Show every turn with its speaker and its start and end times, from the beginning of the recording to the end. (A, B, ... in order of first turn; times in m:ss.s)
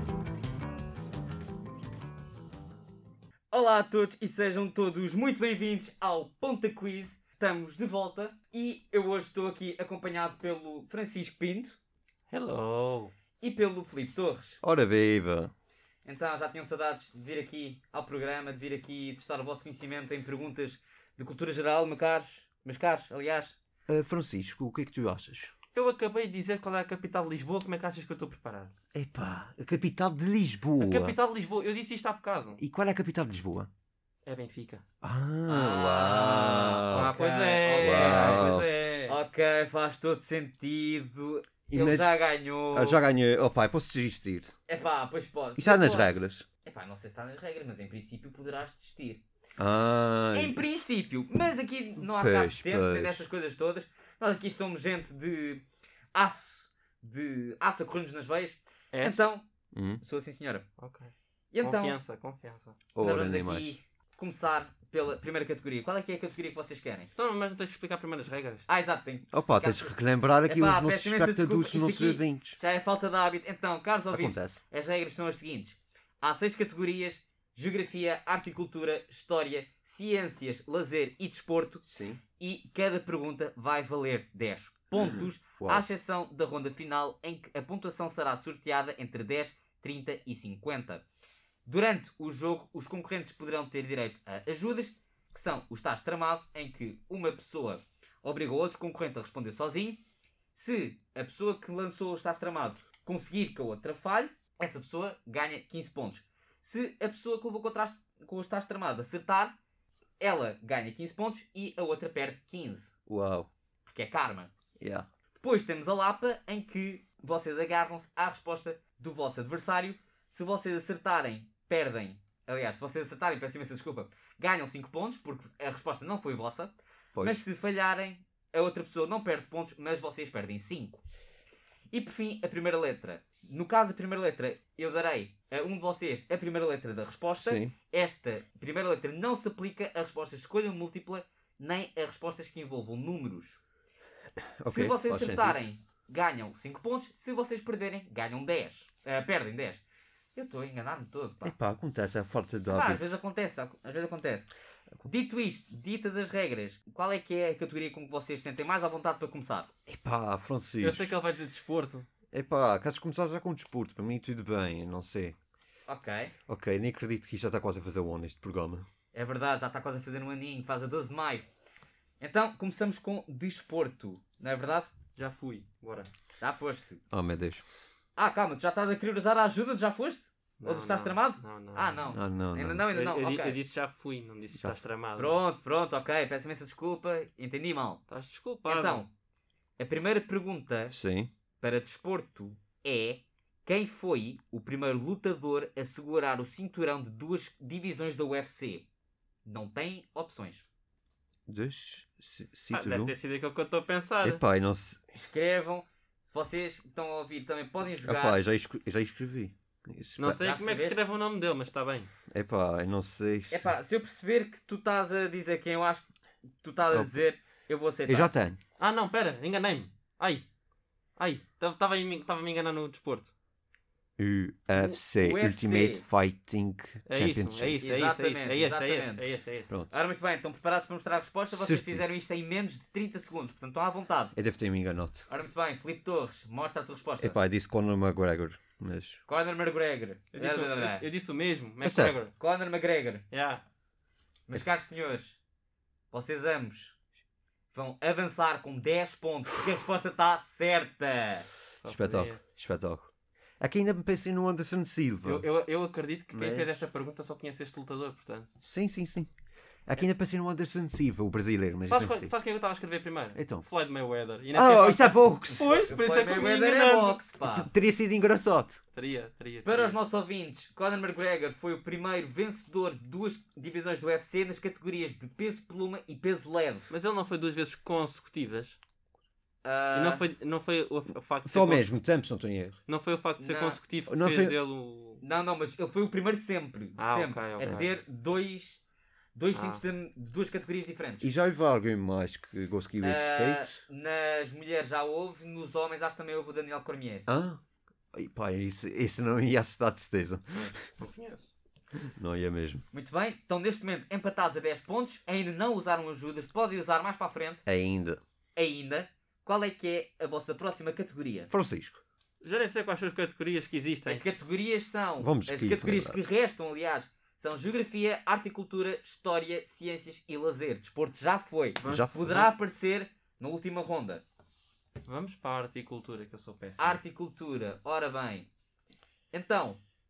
0:03.5-0:11.8 A
0:12.3-0:13.1 B
0:13.4-0:14.6 A
0:14.6-0:15.5 C
0:16.0-0:23.6 A
0:23.9-0:25.5 C
0:25.8-0:28.7 B
0:28.9-0:31.2 C
0:30.8-0:32.6 B
0:32.6-0:33.7 C
0:34.3-0:34.8 B
0:35.0-0:37.2 C
0:35.5-0:38.5 A
0:36.9-0:39.2 B
0:37.8-0:38.7 C
0:39.1-0:43.0 A
0:41.7-0:42.2 C
0:42.7-0:44.5 C
0:44.7-0:49.2 A
0:45.6-0:46.5 C
0:49.6-0:50.6 C
0:50.3-0:59.4 A
0:52.0-0:53.3 C
0:58.9-0:59.2 B
0:59.7-1:00.0 C
1:00.0-1:00.7 A
1:00.8-1:02.8 B
1:01.5-1:02.0 A
1:03.0-1:03.8 C
1:03.0-1:07.1 A
1:07.2-1:08.6 B
1:08.7-1:21.8 A
1:09.3-1:12.6 C
1:14.1-1:14.6 C
1:21.9-1:22.2 C
1:22.4-1:31.0 A
1:25.0-1:25.9 C
1:31.7-1:40.0 A
1:40.6-1:49.6 A
1:50.2-1:52.9 A
1:53.1-1:53.5 C
1:53.9-1:54.5 A
1:54.8-1:55.1 C
1:55.4-2:11.0 A
2:07.1-2:07.4 C
2:11.9-2:23.6 A
2:17.4-2:17.7 C
2:24.6-2:25.7 C
2:24.6-2:29.8 A
2:30.4-2:31.6 A
2:31.4-2:33.2 C
2:32.7-2:34.5 A
2:35.0-2:39.7 A
2:39.9-2:41.1 C
2:40.8-2:42.1 B
2:42.3-2:45.4 C
2:45.9-2:46.3 A
2:46.5-2:48.9 C
2:49.1-2:51.5 A
2:52.2-2:54.9 A
2:55.2-2:56.1 B
2:56.4-2:57.0 A
2:57.1-2:57.6 C
2:58.2-3:03.6 A
3:00.6-3:02.1 B
3:02.1-3:02.8 C
3:02.9-3:05.4 B
3:05.2-3:08.0 A
3:08.1-3:09.0 B
3:08.7-3:09.1 A
3:09.8-3:11.0 A
3:10.9-3:11.3 C
3:11.6-3:18.8 A
3:19.4-3:20.6 A
3:21.5-3:23.1 C
3:22.7-3:24.4 B
3:24.2-3:25.0 C
3:25.1-3:28.4 A
3:28.0-3:30.4 C
3:30.2-3:32.1 B
3:30.4-3:31.0 A
3:32.3-3:33.7 C
3:33.5-3:36.1 A
3:36.6-3:38.3 A
3:36.9-3:37.2 C
3:38.1-3:38.6 C
3:38.8-3:40.4 B
3:41.2-3:43.3 B
3:44.2-3:47.8 C
3:44.8-3:46.0 A
3:47.1-3:49.7 B
3:47.8-3:49.2 A
3:49.9-3:54.3 A
3:51.5-3:52.0 C
3:54.4-3:55.3 C
3:55.3-3:57.4 A
3:57.2-3:59.2 C
3:59.3-4:01.0 A
4:00.3-4:02.3 B
4:01.8-4:02.2 C
4:02.4-4:03.2 A
4:03.3-4:03.6 B
4:04.5-4:05.4 A
4:06.1-4:07.0 A
4:07.7-4:11.5 A
4:11.8-4:12.4 B
4:11.9-4:15.5 C
4:15.2-4:18.5 B
4:16.3-4:16.8 C
4:18.6-4:19.3 C
4:19.9-4:22.4 C
4:21.9-4:27.2 B
4:23.4-4:23.7 C
4:24.5-4:25.9 C
4:25.7-4:27.7 A
4:27.4-4:28.8 C
4:29.0-4:30.0 B
4:29.6-4:36.9 A
4:36.9-4:38.8 B
4:39.6-4:40.2 A
4:39.9-4:42.0 B
4:41.5-4:42.8 C
4:42.9-4:45.2 B
4:43.4-4:43.8 A
4:44.1-4:44.6 C
4:45.2-4:48.8 A
4:47.0-4:47.9 B
4:49.4-4:51.3 A
4:49.5-4:49.8 B
4:51.2-4:53.8 C
4:53.0-4:57.3 A
4:57.3-4:57.6 C
4:58.1-5:00.8 C
5:00.6-5:01.5 B
5:02.2-5:02.8 C
5:02.9-5:07.6 A
5:07.7-5:08.2 C
5:08.6-5:11.5 A
5:11.5-5:12.0 C
5:12.4-5:14.2 B
5:14.1-5:24.2 A
5:15.2-5:16.2 C
5:21.8-5:22.4 B
5:21.8-5:22.5 C
5:25.0-5:27.0 B
5:26.8-5:28.5 A
5:29.3-5:29.8 A